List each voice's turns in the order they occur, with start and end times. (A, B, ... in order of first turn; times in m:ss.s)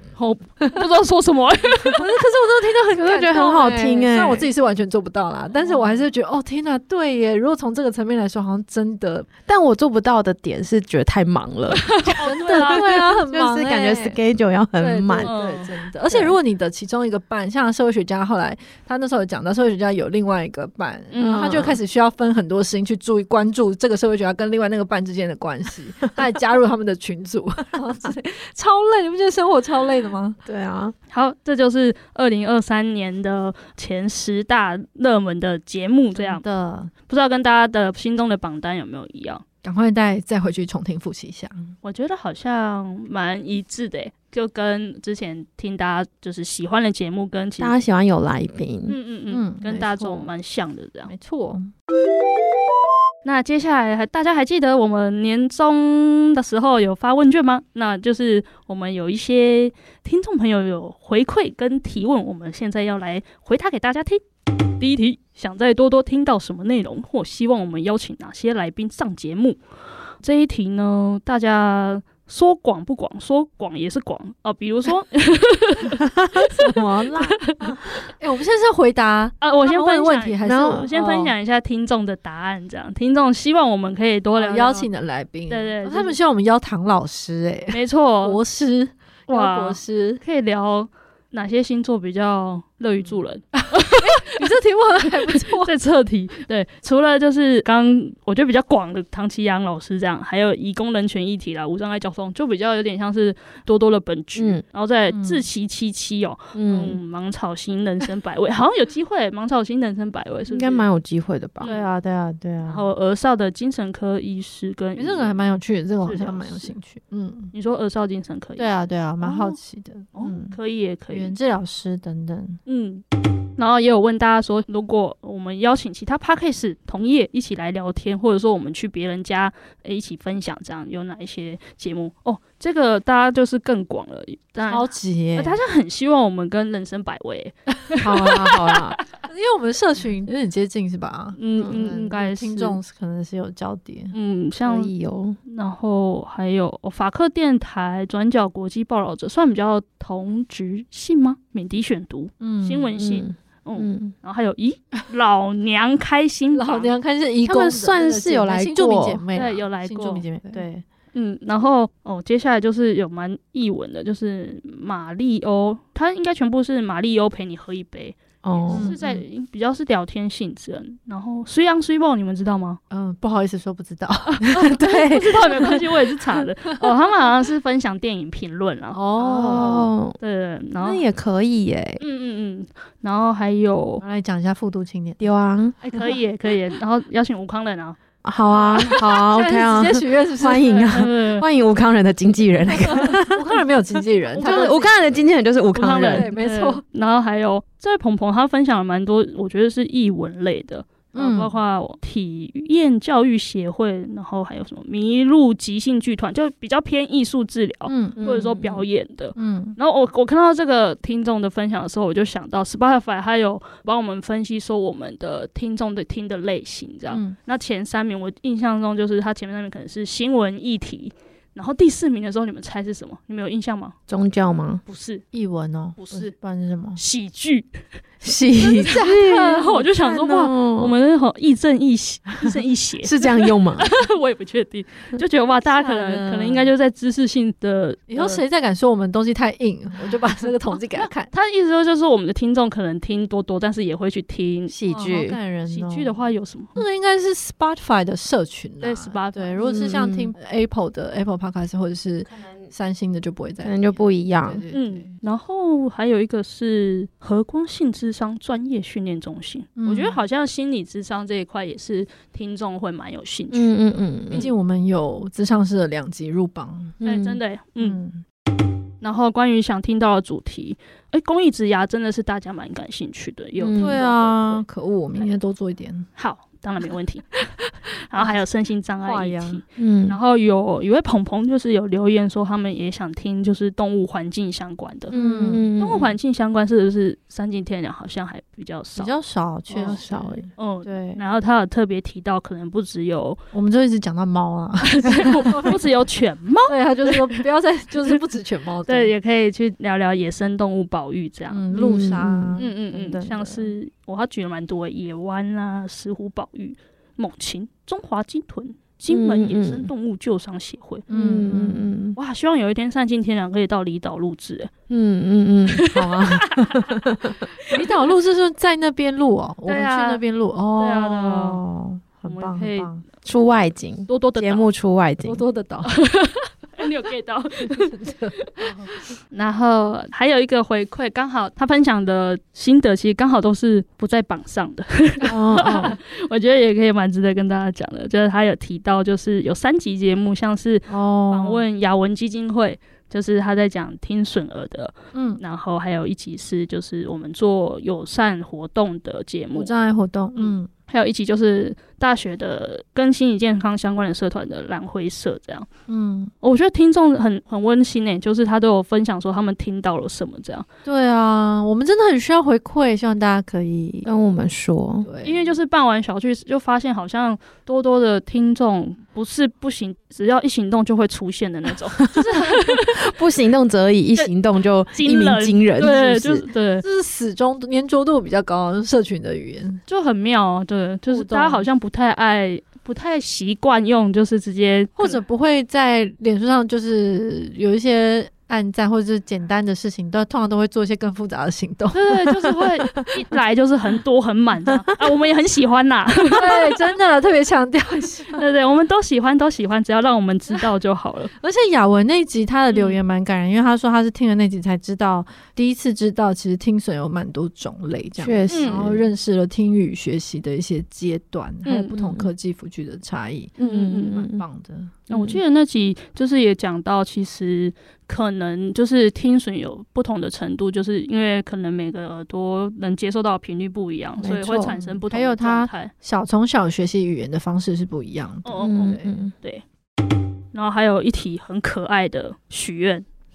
0:00.2-0:02.0 A
0:01.9-0:09.3 B
0:03.0-0:04.5 C
0:09.5-0:12.0 C
0:11.8-0:12.8 A
0:12.2-0:14.2 B
0:12.5-0:15.3 C
0:14.8-0:30.4 B
0:15.2-0:15.7 A
0:16.1-0:16.4 C
0:21.1-0:21.5 A
0:21.2-0:21.8 C
0:30.4-0:31.0 C
0:31.1-0:36.4 A
0:36.2-0:36.9 B
0:37.1-0:39.4 A
0:39.6-0:41.7 B
0:41.8-0:47.7 A
0:47.6-0:49.0 C
0:48.9-0:51.1 A
0:49.3-0:50.3 B
0:51.1-0:51.7 B
0:53.2-1:04.2 A
1:04.8-1:09.6 A
1:10.2-1:16.0 A
1:16.0-1:17.4 C
1:17.4-1:17.7 A
1:18.1-1:21.3 B
1:19.4-1:24.9 A
1:20.5-1:20.9 C
1:24.4-1:30.2 B
1:25.5-1:26.2 A
1:27.7-1:28.4 A
1:29.3-1:34.4 A
1:33.6-1:35.7 B
1:35.2-1:50.8 A
1:44.4-1:44.6 C
1:45.1-1:45.4 B
1:46.5-1:47.0 C
1:50.5-1:51.8 C
1:51.6-1:51.9 A
1:51.6-1:52.7 B
1:52.3-1:52.8 C
1:52.7-1:55.4 A
1:55.0-1:57.5 B
1:56.0-1:56.7 A
1:57.5-1:59.6 A
1:58.6-2:00.6 B
2:00.2-2:01.3 A
2:01.1-2:02.6 B
2:02.7-2:03.0 A
2:03.6-2:18.0 A
2:14.7-2:15.6 B
2:17.9-2:18.7 B
2:18.0-2:19.0 C
2:19.2-2:24.1 B
2:21.4-2:22.8 A
2:24.1-2:24.9 A
2:24.7-2:25.4 C
2:25.4-2:36.9 A
2:32.4-2:32.9 B
2:33.0-2:34.1 C
2:36.5-2:40.6 B
2:37.4-2:39.2 C
2:39.4-2:40.2 A
2:40.5-2:40.8 C
2:41.1-2:52.8 A
2:48.4-2:49.0 C
2:48.7-2:49.2 B
2:52.9-2:54.5 B
2:54.4-2:55.7 C
2:54.5-2:59.0 A
2:58.9-2:59.9 B
2:59.2-3:00.2 C
3:00.2-3:01.0 A
3:00.8-3:02.0 C
3:02.0-3:04.0 A
3:04.0-3:05.2 B
3:05.2-3:05.8 C
3:05.8-3:08.0 A
3:08.2-3:13.5 C
3:08.8-3:10.9 B
3:10.7-3:11.4 A
3:12.9-3:15.0 B
3:14.4-3:14.9 A
3:14.4-3:16.3 C
3:15.8-3:44.0 A
3:16.1-3:16.8 B
3:21.1-3:21.5 B
3:27.9-3:28.3 B
3:28.2-3:28.8 C
3:29.4-3:29.8 B
3:37.1-3:37.4 B
3:44.1-3:44.8 C
3:44.9-3:45.2 A
3:45.3-3:47.0 B
3:46.0-3:46.3 A
3:47.0-3:47.8 A
3:48.2-3:51.0 C
3:48.8-3:49.9 B
3:48.9-3:53.2 A
3:53.0-3:53.9 C
3:53.8-3:58.4 A
3:55.7-3:56.7 B
3:58.1-4:01.3 B
4:01.0-4:04.8 A
4:04.7-4:05.4 C
4:04.9-4:06.2 B
4:05.7-4:06.8 A
4:06.8-4:15.1 B
4:08.8-4:09.6 A
4:09.6-4:10.3 C
4:12.3-4:12.6 C
4:13.6-4:14.6 C
4:14.7-4:23.7 A
4:19.8-4:20.2 B
4:23.5-4:24.5 C
4:24.3-4:27.0 B
4:27.0-4:27.4 C
4:27.0-4:28.0 A
4:27.8-4:28.2 B
4:29.0-4:34.6 A
4:33.6-4:34.0 C
4:33.8-4:36.1 B
4:36.2-4:37.3 A
4:38.1-4:45.2 A
4:39.0-4:39.6 B
4:39.8-4:40.2 C
4:45.1-4:45.7 B
4:45.1-4:46.2 C
4:45.8-4:49.2 A
4:49.0-4:51.2 B
4:49.7-4:50.0 A
4:49.8-4:50.4 C
4:50.6-4:53.4 A
4:53.5-4:55.8 B
4:54.9-4:57.4 A
4:56.7-4:59.1 B
4:58.9-5:01.7 A
5:01.5-5:03.7 B
5:01.7-5:02.6 C
5:02.6-5:11.1 A
5:09.1-5:09.9 C
5:11.1-5:11.8 B
5:11.1-5:12.2 C
5:12.2-5:14.7 A
5:14.9-5:17.4 C
5:15.7-5:16.7 A
5:17.6-5:23.0 B
5:19.7-5:20.2 A
5:20.8-5:21.6 A
5:22.3-5:22.9 A
5:23.2-5:25.4 C
5:24.1-5:24.7 A
5:25.2-5:25.9 B
5:25.9-5:28.7 A
5:27.7-5:28.9 B
5:29.3-5:49.7 A
5:35.3-5:35.9 B
5:35.5-5:35.9 C
5:40.9-5:41.6 B
5:45.1-5:45.4 B
5:49.6-5:50.7 B
5:50.4-5:55.7 A
5:55.9-5:56.3 B
5:56.4-6:00.7 A
6:00.8-6:04.1 B
6:04.0-6:05.1 C
6:05.0-6:05.5 B
6:05.2-6:13.0 A
6:12.9-6:16.5 C
6:14.9-6:16.8 A
6:15.8-6:16.2 B
6:16.8-6:19.8 B
6:19.9-6:25.2 A
6:21.1-6:21.6 B
6:25.0-6:33.1 B
6:31.9-6:36.7 A
6:36.3-6:38.4 B
6:38.4-6:41.3 A
6:41.4-6:55.0 B
6:42.7-6:43.0 A
6:48.2-6:49.0 C
6:48.5-6:48.8 A
6:51.7-6:52.0 A
6:51.9-6:52.3 C
6:53.6-6:54.2 A
6:53.6-6:54.4 C
6:55.1-6:55.4 C
6:55.1-7:05.9 A
7:04.2-7:04.7 C
7:04.7-7:09.1 B
7:08.4-7:09.6 A
7:08.6-7:09.3 C
7:10.5-7:13.1 A